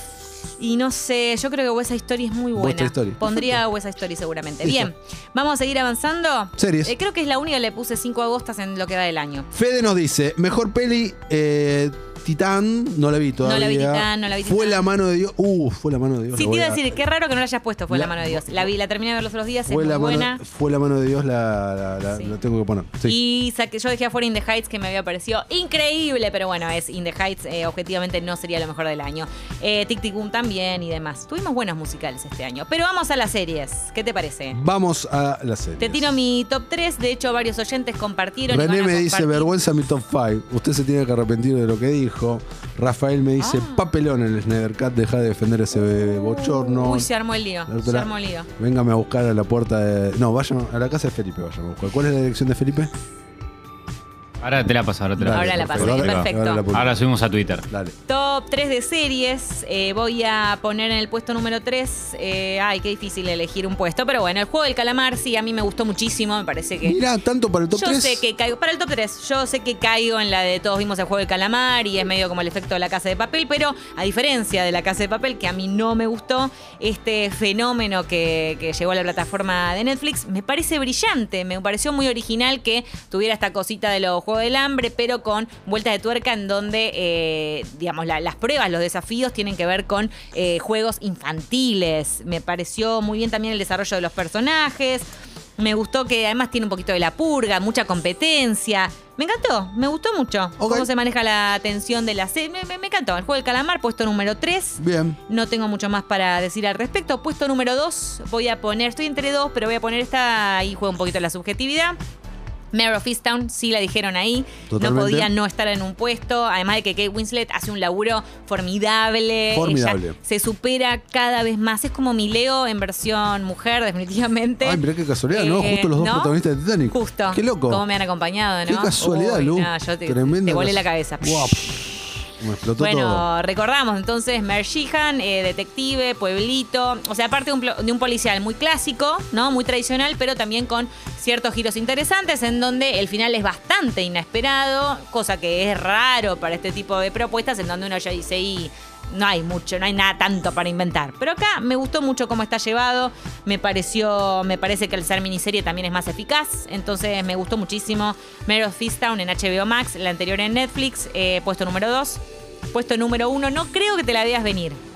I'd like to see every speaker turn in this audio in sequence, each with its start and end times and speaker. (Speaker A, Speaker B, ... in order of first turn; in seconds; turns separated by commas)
Speaker A: 0.6-9.5, Speaker B: 2.6-3.6, Speaker B: 4.6-4.9, Speaker B: 6.6-6.9, Speaker B: 9.5-16.9, Speaker A: 13.4-14.9, Speaker A: 16.3-20.4, Speaker B: 17.9-18.7, Speaker B: 19.7-23.2, Speaker A: 22.1-22.4, Speaker A: 23.0-34.6, Speaker B: 34.5-36.1, Speaker A: 35.8-39.6, Speaker B: 38.5-47.1, Speaker A: 43.4-43.9, Speaker A: 46.6-48.5, Speaker B: 47.7-52.9, Speaker C: 54.4-57.6, Speaker B: 55.2-57.1, Speaker A: 55.2-56.7, Speaker B: 57.6-58.0, Speaker A: 58.1-67.0, Speaker B: 66.8-68.2, Speaker A: 67.7-112.0, Speaker B: 100.6-100.9, Speaker B: 104.8-105.2, Speaker A: 112.7-131.8, Speaker B: 114.7-115.3, Speaker B: 119.5-120.2, Speaker B: 124.6-127.8, Speaker B: 128.7-133.3, Speaker A: 132.8-162.2, Speaker A: 162.7-164.8